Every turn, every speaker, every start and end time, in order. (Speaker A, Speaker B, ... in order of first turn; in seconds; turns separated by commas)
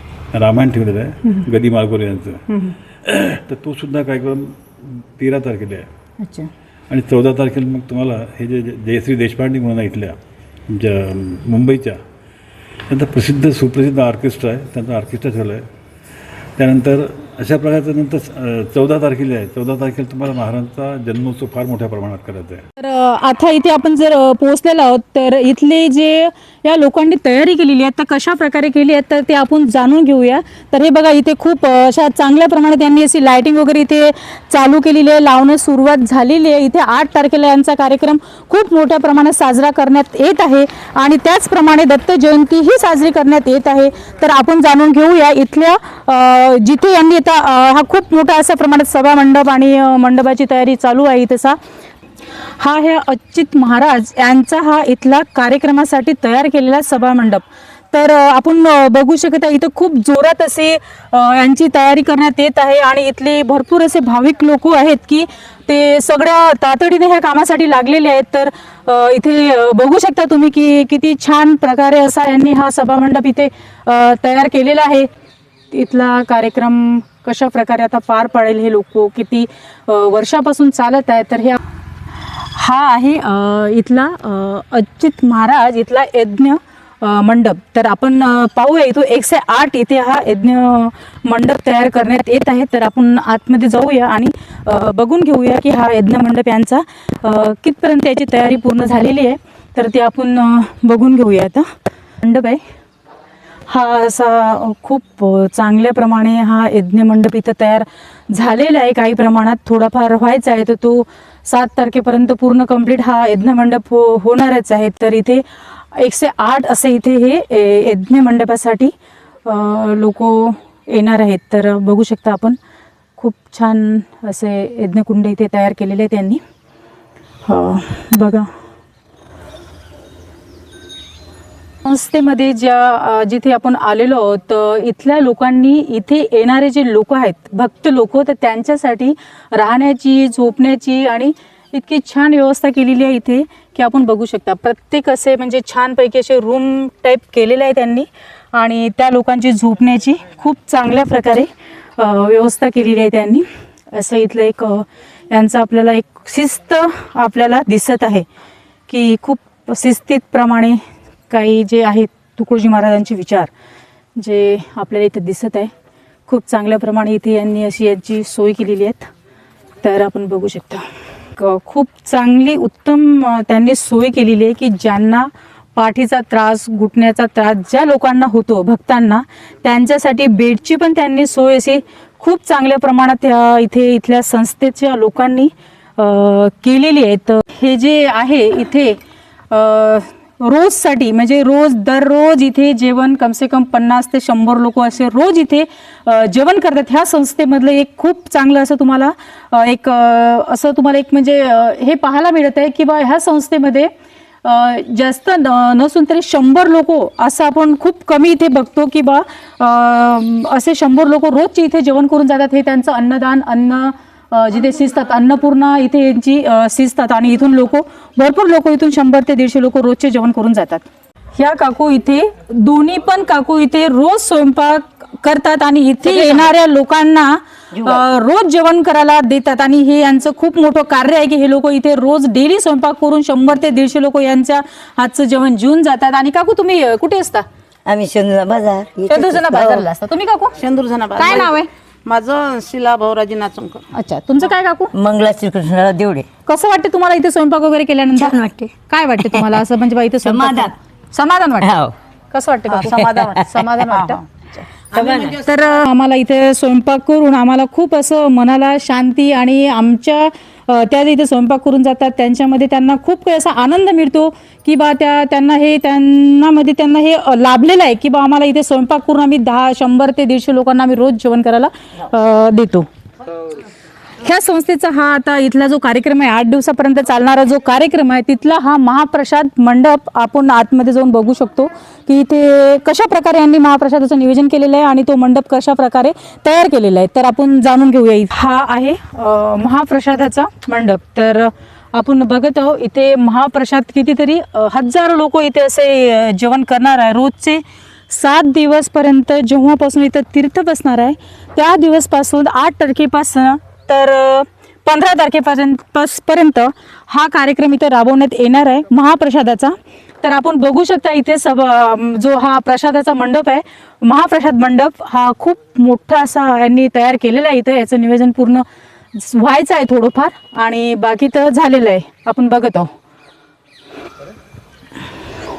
Speaker A: 0.3-5.9, Speaker B: 2.5-2.8, Speaker B: 6.2-6.5, Speaker A: 6.9-12.0, Speaker A: 12.9-15.6, Speaker A: 16.6-22.6, Speaker B: 22.8-51.6, Speaker B: 52.6-75.1, Speaker B: 75.7-81.6, Speaker B: 82.4-101.7, Speaker B: 102.2-102.6, Speaker B: 103.7-118.9, Speaker B: 119.4-122.6, Speaker B: 123.2-126.4, Speaker B: 127.4-128.5, Speaker B: 131.8-158.2, Speaker B: 158.9-160.8, Speaker B: 161.3-163.5, Speaker B: 164.2-165.7, Speaker B: 166.3-169.1, Speaker B: 169.8-170.8, Speaker B: 171.4-203.9, Speaker B: 204.4-237.4, Speaker C: 226.1-226.4, Speaker C: 227.7-228.1, Speaker C: 237.9-239.8, Speaker B: 239.1-240.6, Speaker D: 240.6-243.9, Speaker B: 241.2-241.7, Speaker B: 243.9-244.9, Speaker C: 244.9-246.2, Speaker B: 246.4-272.9, Speaker C: 248.1-249.6, Speaker C: 250.2-250.7, Speaker C: 251.6-251.9, Speaker D: 252.7-253.3, Speaker C: 253.1-253.7, Speaker D: 253.9-254.2, Speaker D: 254.9-255.6, Speaker C: 254.9-255.4, Speaker B: 274.2-322.9